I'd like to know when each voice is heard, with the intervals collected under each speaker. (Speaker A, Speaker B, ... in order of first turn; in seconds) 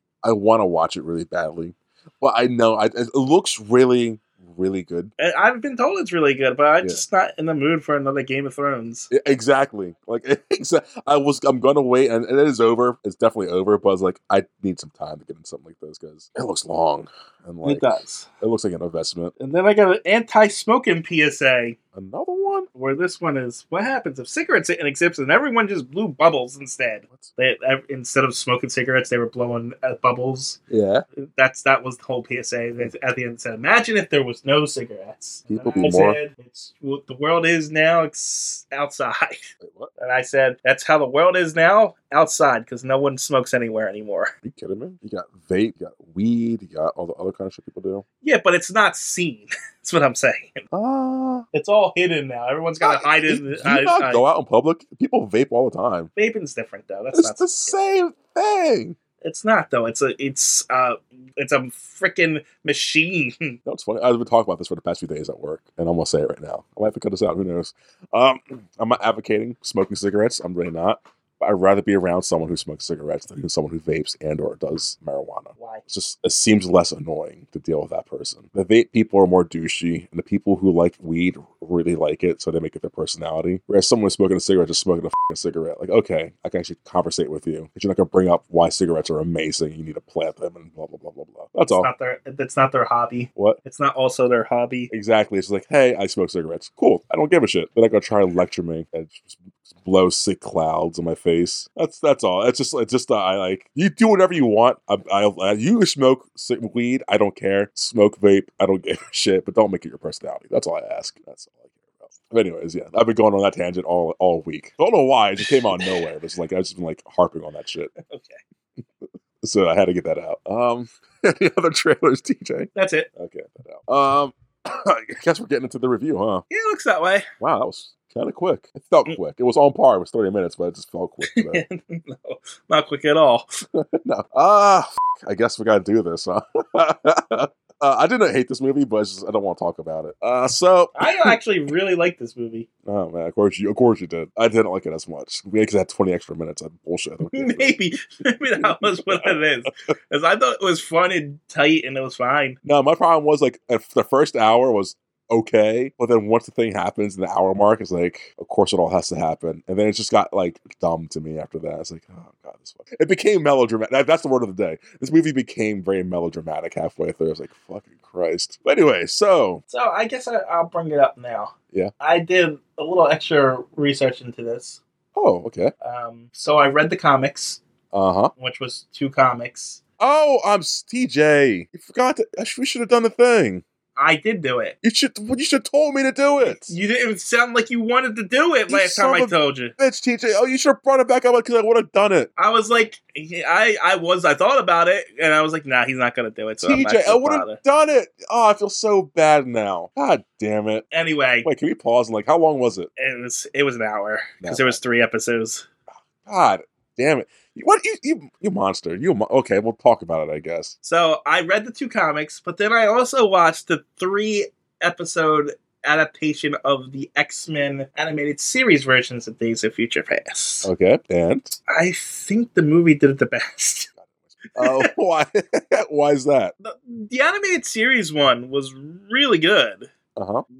Speaker A: 0.2-5.1, 9.1-19.3, 21.9-22.7, 30.7-31.0, 35.5-36.2, 39.6-39.9, 44.4-48.0, 50.7-51.5, 52.8-56.1, 57.1-59.0, 63.6-91.9, 94.9-117.9, 119.4-126.4, 127.4-131.6, 133.7-141.4, 142.8-147.7, 148.6-149.4, 152.6-169.6, 175.1-175.7, 177.9-178.3, 180.0-183.6, 184.8-186.8, 188.7-192.3, 196.6-200.8, 201.4-202.9, 204.4-204.8, 206.2-210.8, 220.6-221.6, 224.0-226.5, 230.2-230.4
Speaker B: 5.2-9.1, 17.6-18.3, 19.4-21.8, 22.7-30.6, 31.2-44.3, 48.2-50.7, 51.5-54.2, 56.1-57.8, 59.2-63.6, 75.5-75.8, 91.8-94.9, 115.5-116.0, 118.0-118.4, 122.7-123.1, 126.5-127.3, 131.3-133.6, 140.9-142.7, 147.3-152.6, 169.7-174.8, 175.8-177.6, 178.4-179.8, 183.9-184.8, 186.4-189.7, 192.4-197.6, 200.9-201.5, 203.0-205.7, 210.8-220.7, 221.7-223.9, 224.5-224.9, 226.6-229.9